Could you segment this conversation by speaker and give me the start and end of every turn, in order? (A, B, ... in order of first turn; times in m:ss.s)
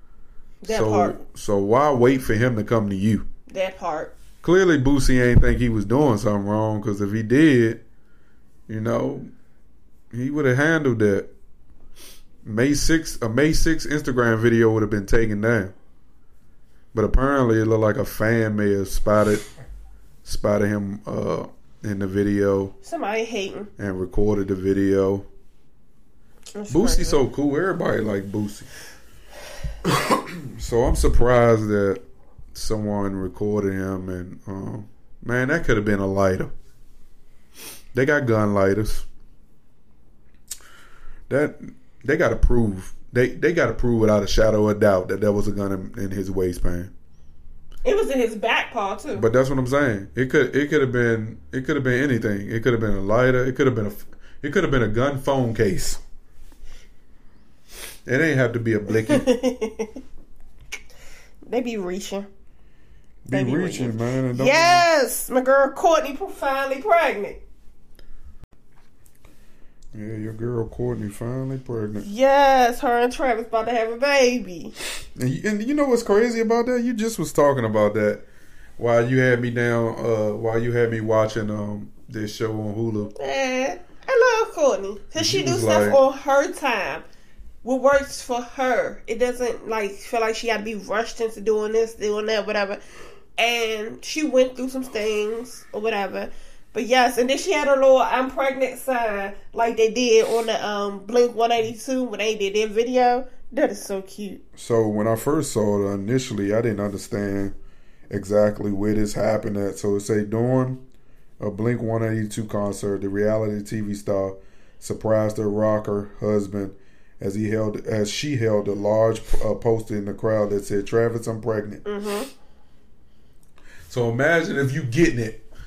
0:00.6-0:01.2 A
0:00.7-0:03.2 B
0:03.5-0:04.1 A
0:04.4-0:07.8 B
0:08.7-0:09.3 B
0:10.1-0:11.3 B
0:12.4-0:15.7 B
0:16.9-0:19.4 B
0:20.2-0:22.8 B
0:22.8-0:23.7 A
0:23.8-0:25.3 B
0:26.5-0:27.2 A
0:26.7-0:28.7 B
0:29.9-0:32.0 B
0:32.5-0:36.5 B
0:37.9-0:39.0 B
0:41.3-0:46.9 B
0:47.8-0:49.2 A
0:49.1-0:56.0 B
0:58.0-0:59.3 B
0:58.9-0:59.9 A
1:01.5-1:02.3 A
1:03.2-1:04.9 B
1:03.3-1:07.4 A
1:09.9-1:12.1 B
1:12.0-1:14.7 A
1:15.2-1:18.2 B
1:18.8-1:23.1 B
1:23.2-1:27.0 A
1:25.1-1:26.0 B
1:27.6-1:32.8 A
1:33.4-1:44.4 A
1:44.6-1:47.5 B
1:48.1-1:50.8 B
1:51.4-2:01.8 B
2:01.8-2:02.3 A
2:03.9-2:05.4 B